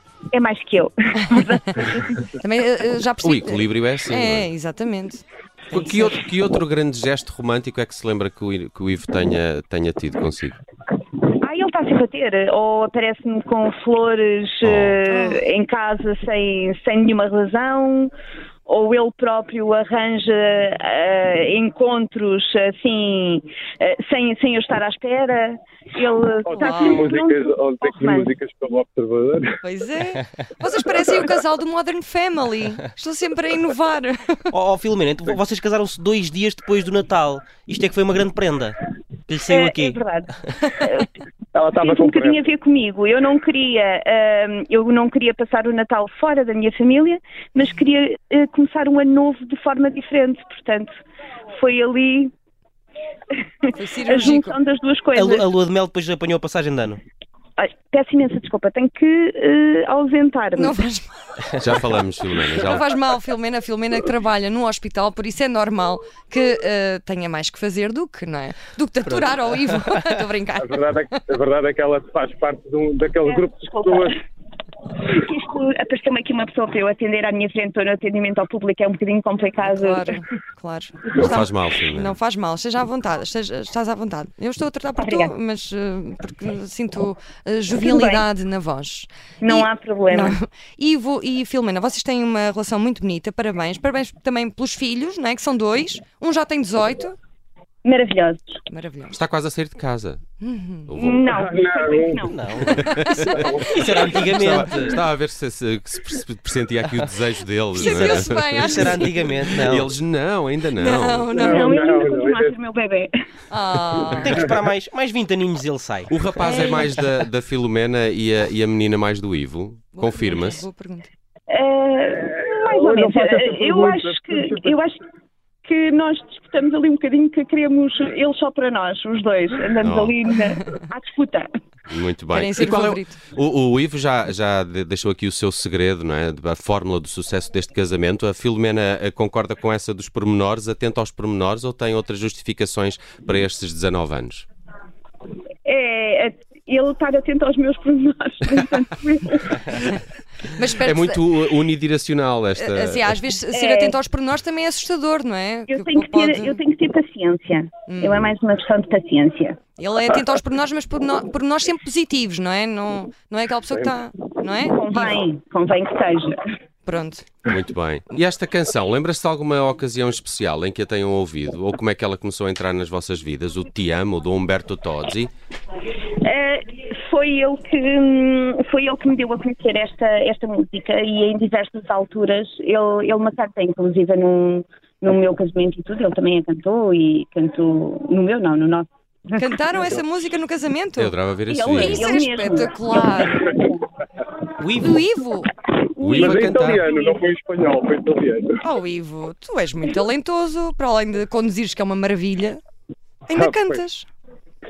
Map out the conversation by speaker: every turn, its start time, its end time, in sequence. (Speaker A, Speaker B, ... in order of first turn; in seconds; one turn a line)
Speaker A: 0.3-2.3
Speaker B: 2.3-5.2
Speaker C: 3.2-4.5
Speaker C: 5.7-10.6
Speaker A: 11.3-18.1
Speaker C: 14.6-15.0
Speaker A: 18.6-28.3
Speaker D: 26.4-29.6
Speaker B: 26.5-27.1
Speaker B: 29.6-34.5
Speaker E: 34.5-40.5
Speaker A: 39.5-41.1
Speaker D: 41.5-42.5
Speaker A: 41.7-50.9
Speaker A: 51.6-52.3
Speaker A: 53.3-55.5
Speaker B: 53.7-54.6
Speaker E: 55.1-57.0
Speaker A: 57.6-60.8
Speaker B: 60.5-61.2
Speaker C: 61.5-62.8
Speaker B: 62.6-70.8
Speaker D: 70.6-74.2
Speaker A: 73.2-74.2
Speaker A: 75.0-80.2
Speaker B: 79.6-97.1
Speaker C: 81.2-82.2
Speaker A: 85.0-85.3
Speaker A: 87.7-88.2
Speaker A: 89.4-90.4
Speaker A: 97.8-98.6
Speaker B: 98.7-99.2
Speaker C: 99.1-100.2
Speaker B: 100.4-101.0
Speaker C: 100.9-101.3
Speaker A: 101.0-102.4
Speaker D: 101.3-102.2
Speaker E: 102.3-103.0
Speaker C: 102.7-103.6
Speaker B: 102.8-103.5
Speaker D: 102.8-104.6
Speaker E: 103.5-105.0
Speaker C: 104.3-111.3
Speaker B: 107.7-109.1
Speaker E: 107.9-109.9
Speaker B: 110.8-111.7
Speaker D: 111.3-112.5
Speaker A: 111.4-113.1
Speaker B: 113.5-114.4
Speaker E: 114.2-116.3
Speaker C: 116.1-120.7
Speaker B: 116.4-116.9
Speaker B: 119.9-121.1
Speaker A: 121.5-125.0
Speaker D: 122.3-124.8
Speaker A: 125.6-131.4
Speaker C: 129.8-130.2
Speaker C: 131.9-144.5
Speaker B: 132.3-133.2
Speaker A: 145.6-149.8
Speaker B: 150.5-151.2
Speaker C: 150.7-153.2
Speaker B: 152.6-156.6
Speaker A: 153.5-154.0
Speaker A: 155.7-159.6
Speaker B: 157.9-158.2
Speaker B: 159.8-165.2
Speaker A: 164.7-166.4
Speaker B: 166.8-167.2
Speaker C: 167.5-175.3
Speaker A: 176.2-189.8
Speaker B: 189.3-191.1
Speaker C: 191.0-192.2
Speaker A: 191.5-193.8
Speaker B: 191.8-193.5
Speaker E: 194.6-195.0
Speaker B: 194.8-195.5
Speaker A: 196.0-197.2
Speaker C: 196.0-196.8
Speaker D: 196.1-198.6
Speaker B: 198.6-202.6
Speaker B: 203.3-204.1
Speaker D: 203.3-203.8